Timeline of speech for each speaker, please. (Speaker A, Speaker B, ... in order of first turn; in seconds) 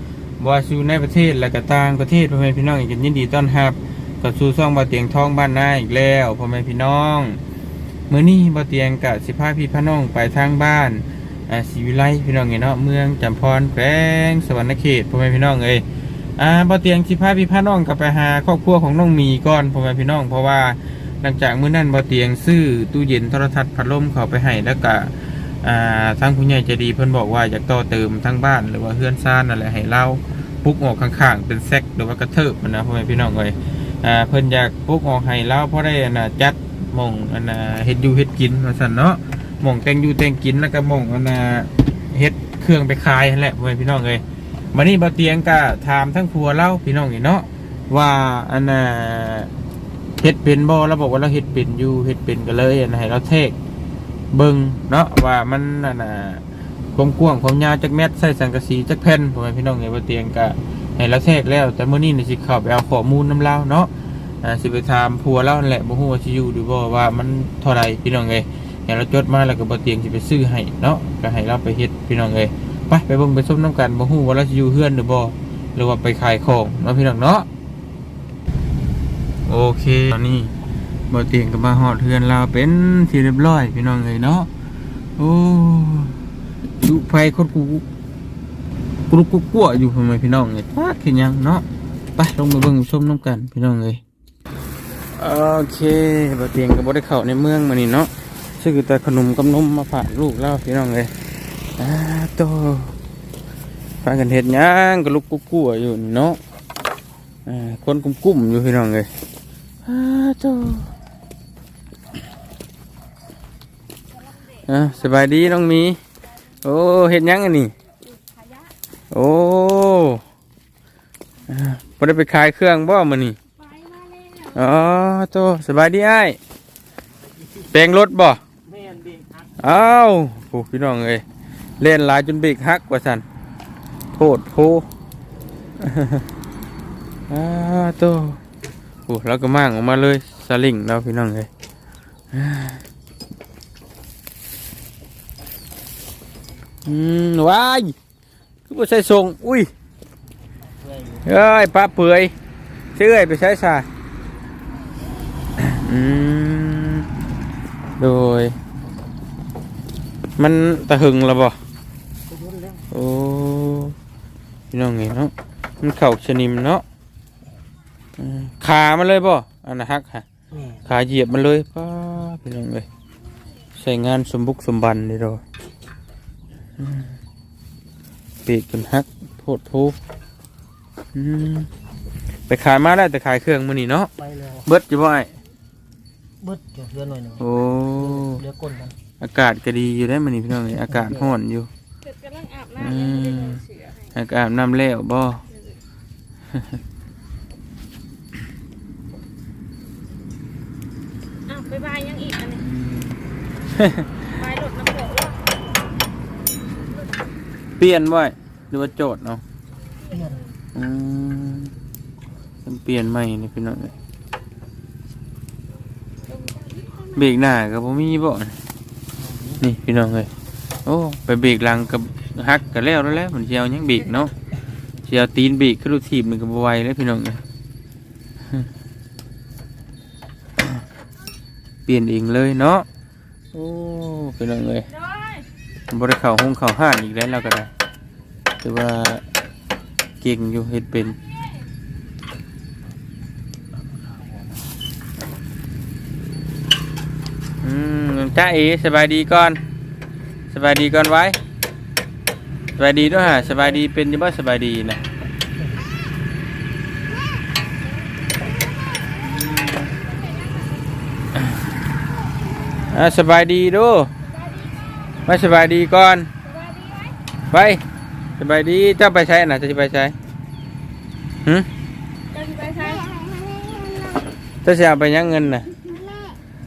Speaker A: 0.4-7.4, 8.1-15.8, 16.4-49.5, 50.2-53.5, 54.3-56.4, 57.0-63.9, 64.4-77.5, 79.5-80.5, 81.1-84.5, 85.2-86.2, 86.8-87.8, 89.1-91.6, 92.2-94.0, 95.2-101.1, 101.8-102.9, 104.0-106.4, 107.5-109.1, 109.8-110.9, 114.7-116.0, 116.6-117.7, 119.1-120.2, 121.5-123.4, 124.5-126.4, 127.7-128.4, 129.6-131.2, 131.8-133.2, 134.1-134.9, 135.8-136.3, 137.3-138.4, 139.1-141.5, 142.3-142.8, 146.8-147.9, 148.7-149.7, 151.2-152.3, 152.9-153.8, 155.6-157.1, 158.0-158.6, 160.4-161.6, 162.9-163.9, 164.7-166.8, 168.2-170.2, 170.8-172.8, 173.7-175.4, 176.8-177.1, 178.4-179.9, 181.1-181.7, 182.5-184.1, 184.6-185.3, 187.4-188.4, 189.2-191.7, 192.8-193.6, 194.1-195.4, 202.6-204.2, 207.8-209.4, 210.7-211.7, 212.6-213.9, 217.1-218.5, 219.6-220.3, 220.8-224.3, 225.0-227.4, 231.8-232.8, 233.5-234.9, 235.9-237.7, 238.6-239.2, 240.2-241.2, 247.6-249.6, 250.5-251.4, 252.8-255.0, 262.9-264.1, 265.2-266.3, 267.5-267.8, 268.4-270.1, 274.6-275.7
Speaker B: 118.4-118.7, 123.6-124.6, 192.0-194.0, 195.5-195.8, 201.5-202.7, 204.2-205.4, 216.4-217.1, 234.8-235.4, 259.6-260.8, 262.6-262.9, 264.3-265.2, 266.4-267.1, 272.3-274.2
Speaker C: 128.6-129.6, 150.7-151.3, 162.3-162.8, 184.2-184.6, 186.4-187.4, 188.0-188.9, 219.3-219.6